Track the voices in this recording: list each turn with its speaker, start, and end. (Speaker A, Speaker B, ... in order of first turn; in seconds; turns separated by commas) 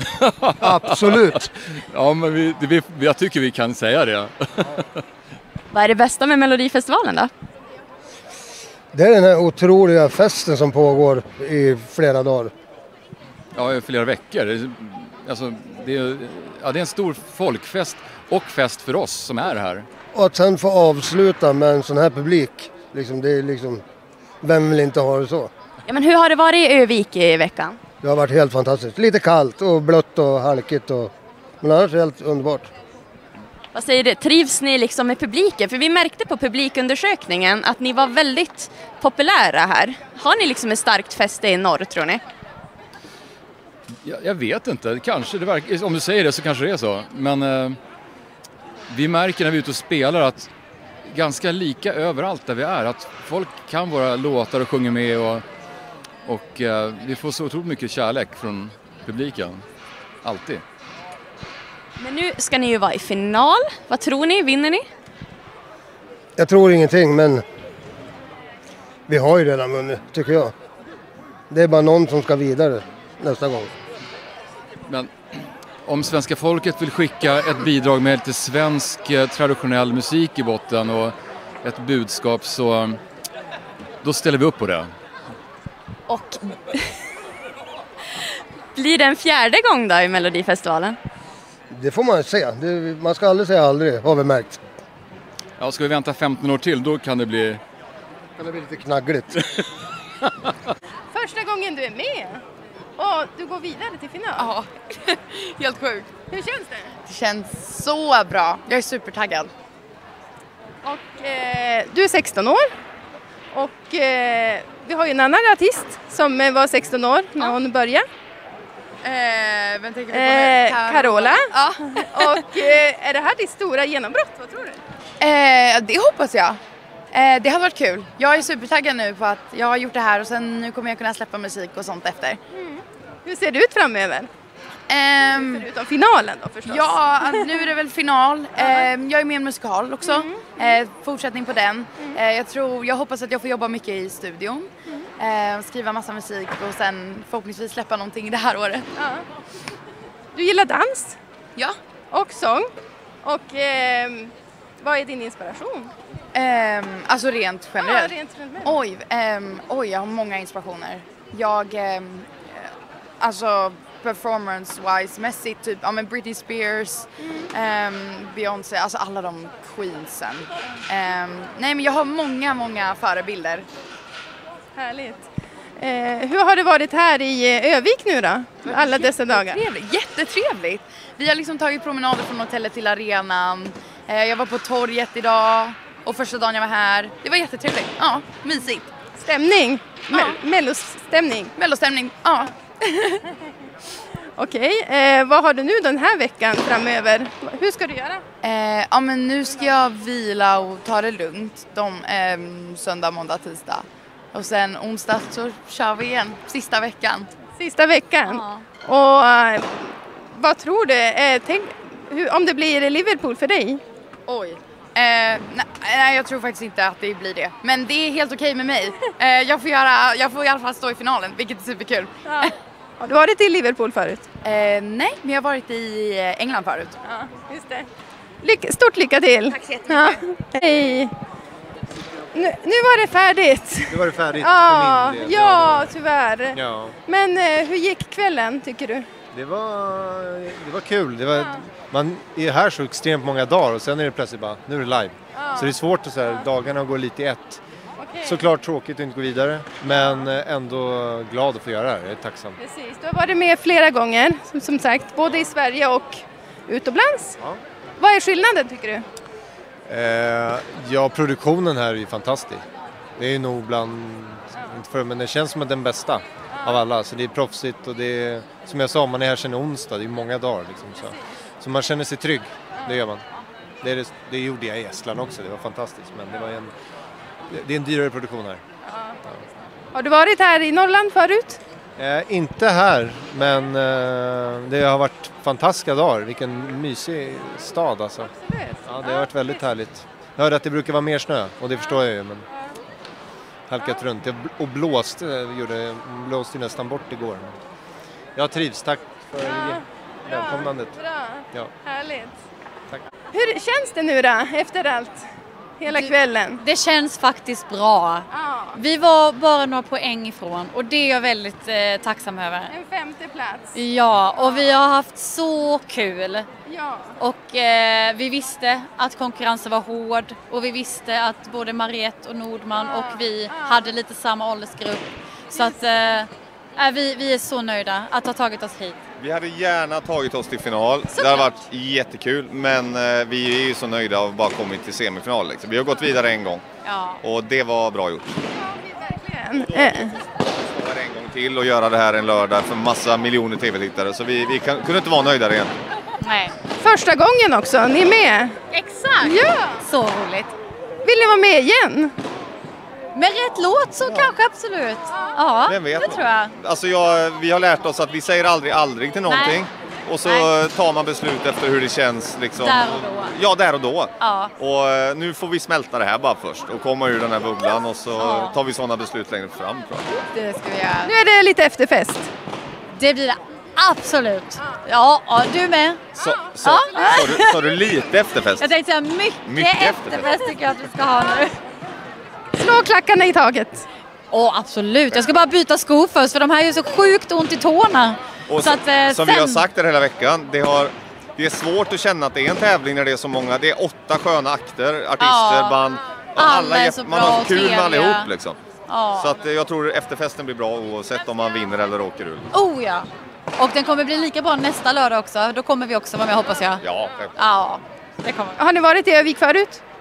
Speaker A: 0.2-5.0, Speaker B: 0.7-1.4, Speaker C: 5.7-7.3, Speaker B: 8.9-12.5, Speaker A: 13.5-19.9, Speaker B: 20.2-23.8, Speaker B: 24.4-25.5, Speaker C: 25.9-27.8, Speaker B: 28.0-31.1, Speaker B: 31.6-32.7, Speaker C: 33.7-42.2, Speaker A: 44.0-47.8, Speaker A: 48.9-50.5, Speaker A: 51.0-55.4, Speaker A: 56.2-59.6, Speaker A: 60.2-60.6, Speaker C: 62.0-64.9, Speaker B: 66.4-67.4, Speaker B: 69.1-70.5, Speaker B: 71.5-73.7, Speaker A: 74.9-83.0, Speaker A: 84.0-84.9, Speaker C: 86.1-86.8, Speaker C: 88.7-91.0, Speaker B: 92.0-94.5, Speaker A: 95.6-97.6, Speaker B: 98.4-99.2, Speaker D: 101.1-102.4, Speaker D: 103.0-104.5, Speaker E: 104.3-106.1, Speaker D: 106.3-106.9, Speaker E: 107.0-109.5, Speaker D: 110.8-112.7, Speaker D: 113.5-118.0, Speaker E: 119.0-122.4, Speaker D: 120.1-124.8, Speaker E: 125.2-126.6, Speaker E: 127.1-132.4, Speaker D: 132.6-134.3, Speaker E: 134.9-135.7, Speaker D: 135.4-137.6, Speaker E: 136.7-148.9, Speaker D: 138.6-138.9, Speaker D: 140.0-140.5, Speaker D: 149.0-149.2, Speaker D: 150.3-151.2, Speaker D: 152.1-152.7, Speaker D: 153.2-155.9, Speaker E: 156.3-173.7, Speaker D: 157.8-158.7, Speaker D: 174.8-175.2, Speaker D: 175.8-179.6, Speaker E: 178.6-188.9, Speaker D: 189.2-191.5, Speaker E: 190.1-190.4, Speaker E: 191.6-192.5, Speaker D: 194.4-198.2, Speaker E: 198.4-207.3, Speaker D: 207.6-213.8, Speaker E: 214.3-222.4, Speaker D: 222.2-224.2, Speaker E: 224.4-226.9, Speaker D: 227.0-227.9, Speaker D: 228.4-231.1, Speaker D: 232.3-239.1, Speaker F: 233.9-235.9, Speaker F: 236.5-236.9, Speaker F: 239.3-247.6, Speaker D: 245.3-246.4, Speaker D: 248.0-248.4, Speaker F: 248.2-252.6, Speaker D: 252.6-257.4, Speaker D: 258.0-259.0, Speaker F: 259.9-262.6, Speaker F: 263.2-273.2, Speaker F: 273.8-276.7, Speaker F: 277.5-278.6, Speaker D: 278.9-279.1, Speaker D: 279.9-281.6, Speaker F: 282.0-292.5, Speaker D: 288.4-289.3, Speaker F: 293.7-297.6, Speaker F: 298.4-301.0, Speaker D: 299.5-302.4, Speaker D: 303.3-305.2, Speaker D: 305.8-306.6, Speaker G: 305.9-312.7, Speaker D: 308.3-308.8, Speaker D: 312.7-313.8, Speaker G: 313.7-316.5, Speaker D: 316.6-317.1, Speaker G: 317.2-329.0, Speaker D: 322.8-323.9, Speaker D: 325.5-325.8, Speaker H: 329.2-336.6, Speaker D: 331.1-331.4, Speaker G: 331.2-331.6, Speaker G: 336.8-337.2, Speaker H: 337.2-338.3, Speaker D: 338.6-340.2, Speaker H: 340.6-345.7, Speaker G: 346.2-346.6, Speaker D: 346.8-348.6, Speaker G: 348.7-350.5, Speaker D: 349.2-349.8, Speaker D: 351.0-352.1, Speaker G: 353.1-356.6, Speaker H: 355.7-370.1, Speaker G: 359.2-359.6, Speaker G: 360.2-360.6, Speaker G: 362.6-363.4, Speaker G: 364.2-364.5, Speaker G: 368.1-368.6, Speaker G: 370.2-371.1, Speaker D: 371.0-372.3, Speaker G: 372.9-376.0, Speaker H: 376.1-378.6, Speaker G: 376.6-377.7, Speaker G: 378.6-381.6, Speaker H: 379.4-380.3, Speaker D: 382.5-383.8, Speaker G: 384.3-389.7, Speaker H: 388.5-398.6, Speaker G: 395.2-395.8, Speaker G: 396.4-398.4, Speaker G: 398.9-399.4, Speaker H: 399.2-402.5, Speaker G: 402.5-406.8, Speaker H: 406.8-407.3, Speaker G: 407.4-408.6, Speaker D: 408.6-409.8